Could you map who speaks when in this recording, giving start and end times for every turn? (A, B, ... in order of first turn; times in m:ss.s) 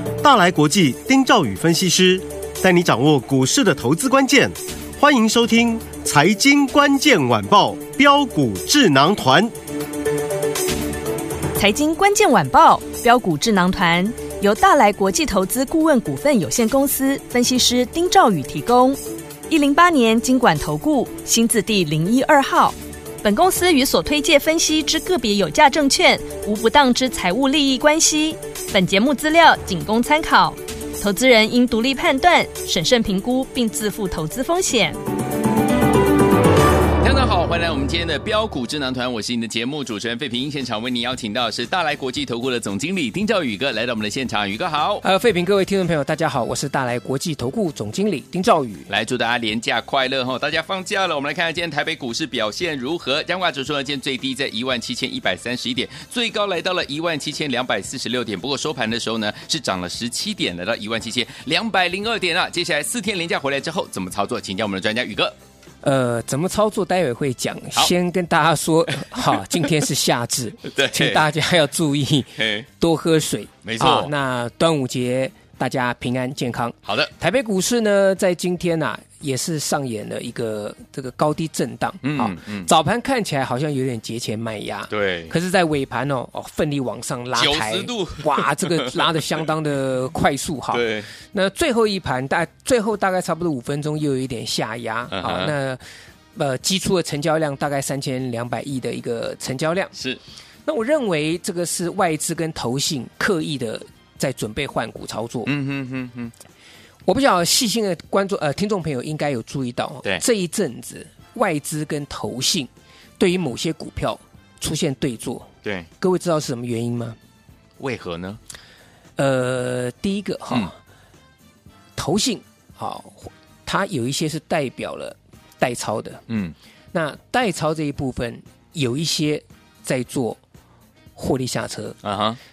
0:00.2-0:09.5 A
0:11.6-0:35.0 B
0:37.0-0:45.0 C
0:45.0-0:48.9 D
0:48.9-1:05.4 C
1:05.8-1:35.8 D
1:10.7-1:11.3 C
1:12.4-1:12.7 C
1:13.6-1:14.1 C
1:16.8-1:17.1 C
1:22.0-1:22.7 C
1:24.9-1:25.3 C
1:27.4-1:29.4 C
1:30.7-1:31.1 C
1:35.1-1:35.5 C
1:36.4-1:39.9 D
1:40.0-1:40.2 C
1:40.7-1:45.5 D
1:45.5-1:46.3 C
1:47.1-1:55.5 D
1:56.0-1:57.2 D
1:57.8-1:58.4 C
1:59.2-2:00.7 D
2:02.0-2:06.2 D
2:06.3-2:06.6 C
2:06.9-2:10.4 D
2:11.2-2:12.0 D
2:12.0-2:12.4 C